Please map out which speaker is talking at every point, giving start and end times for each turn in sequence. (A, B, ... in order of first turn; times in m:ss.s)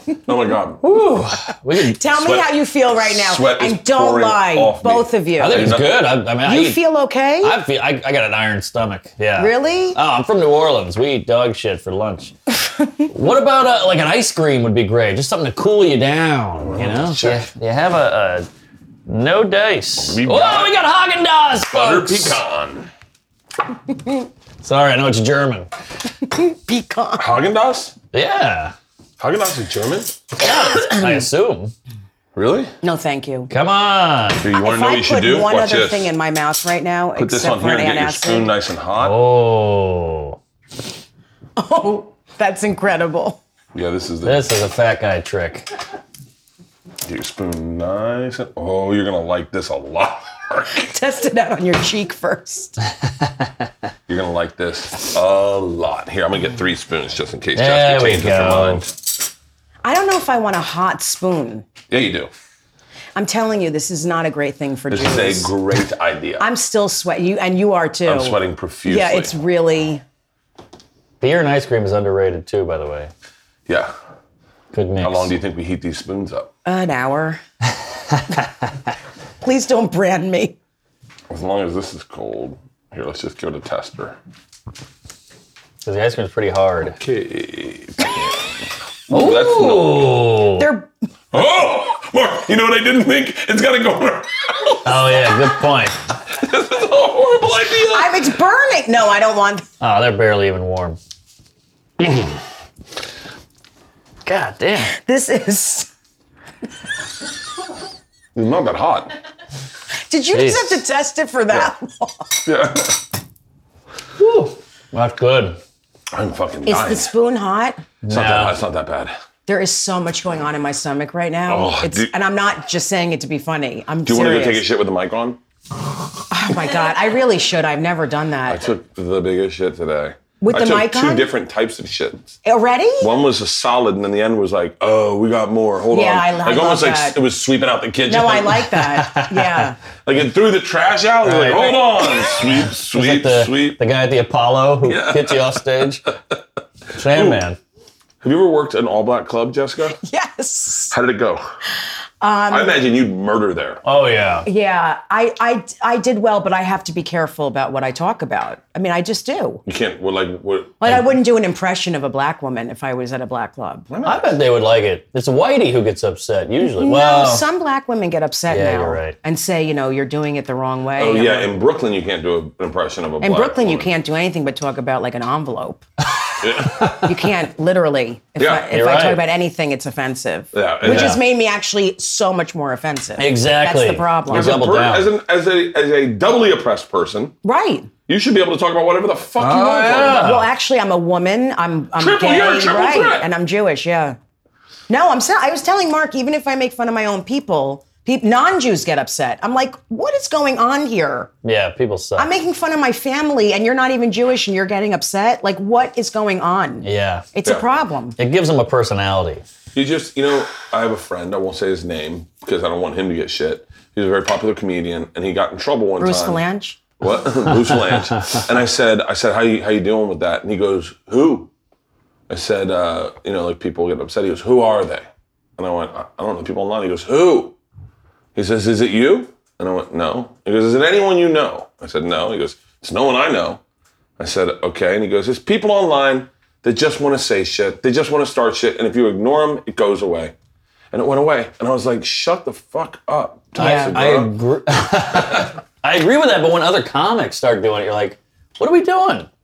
0:00.2-0:00.8 A
0:00.8-0:02.0 B
0:01.8-0:05.8 C
0:02.1-0:06.1 A
0:05.4-0:06.8 B
0:06.4-0:07.6 C
0:07.4-0:12.3 B
0:09.4-0:10.0 C
0:13.1-0:18.5 B
0:16.7-0:17.4 A
0:19.1-0:22.4 B
0:20.0-0:20.8 A
0:21.7-0:22.9 A
0:24.6-0:25.7 B
0:26.2-0:27.3 C
0:27.2-0:27.9 A
0:28.1-0:28.7 B
0:29.2-0:30.2 A
0:30.4-0:31.7 B
0:32.3-0:32.7 A
0:32.8-0:33.5 C
0:33.5-0:34.4 B
0:34.4-0:36.1 A
0:34.6-0:38.5 C
0:37.2-0:39.1 A
0:39.0-0:40.4 B
0:41.6-0:43.4 C
0:43.7-0:44.5 A
0:44.2-0:45.7 B
0:47.0-0:50.8 A
0:50.7-0:52.8 C
0:54.1-0:58.9 A
0:57.6-0:58.8 B
0:59.8-1:01.7 C
1:01.9-1:02.3 A
1:03.1-1:05.5 C
1:04.9-1:06.4 A
1:06.4-1:10.0 C
1:08.0-1:09.3 A
1:11.2-1:13.1 B
1:13.7-1:13.9 A
1:14.7-1:15.3 B
1:15.0-1:16.5 A
1:16.6-1:17.4 C
1:19.4-1:20.6 C
1:21.3-1:24.2 A
1:25.8-1:27.0 B
1:27.0-1:30.3 A
1:29.1-1:30.6 B
1:30.6-1:30.9 C
1:31.3-1:35.2 A
1:34.8-1:35.9 B
1:36.3-1:38.2 A
1:37.9-1:39.6 C
1:39.8-1:41.0 B
1:44.2-1:44.9 B
1:44.9-1:45.9 C
1:48.3-1:49.1 A
1:50.1-1:52.4 C
1:50.3-1:50.8 B
1:52.4-1:53.0 A
1:54.2-1:55.6 B
1:56.1-1:57.1 A
1:56.6-1:57.8 C
1:58.0-1:58.6 B
1:58.1-1:59.1 A
1:59.5-2:04.6 C
2:01.5-2:02.1 A
2:04.0-2:05.4 A
2:06.3-2:08.6 C
2:08.5-2:12.4 A
2:10.4-2:11.3 C
2:12.4-2:13.1 C
2:13.0-2:18.7 A
2:15.9-2:17.2 C
2:18.1-2:19.8 C
2:19.0-2:19.5 B
2:20.0-2:23.8 A
2:21.2-2:26.0 B
2:24.8-2:26.4 A
2:26.9-2:27.6 B
2:27.0-2:27.4 A
2:28.2-2:30.0 A
2:30.0-2:30.9 C
2:30.9-2:31.4 A
2:32.2-2:32.8 C
2:32.5-2:33.8 A
2:33.8-2:34.4 B
2:34.4-2:39.6 C
2:39.6-2:41.2 A
2:40.8-2:43.9 C
2:43.9-2:44.4 A
2:44.0-2:47.4 B
2:46.6-2:51.6 C
2:48.5-2:49.2 B
2:51.0-2:53.9 A
2:53.2-2:55.8 C
2:56.4-2:56.9 A
2:57.0-3:04.6 C
2:58.4-2:58.6 A
2:58.7-2:59.2 B
3:00.5-3:01.2 A
3:00.8-3:01.2 B
3:03.2-3:05.1 B
3:04.3-3:07.3 A
3:07.4-3:07.9 C
3:08.1-3:10.4 A
3:09.4-3:10.5 B
3:10.1-3:14.2 C
3:12.0-3:13.3 A
3:14.9-3:21.3 C
3:21.4-3:22.3 B
3:22.2-3:28.2 C
3:26.8-3:27.3 B
3:28.2-3:29.4 B
3:29.7-3:36.4 A
3:36.0-3:36.8 C
3:37.0-3:41.5 A
3:42.3-3:45.0 A
3:45.6-3:47.6 A
3:48.3-3:53.6 A
3:54.2-4:00.3 A
4:00.9-4:04.3 A
4:03.6-4:09.3 B
4:03.6-4:04.0 C
4:04.9-4:05.5 A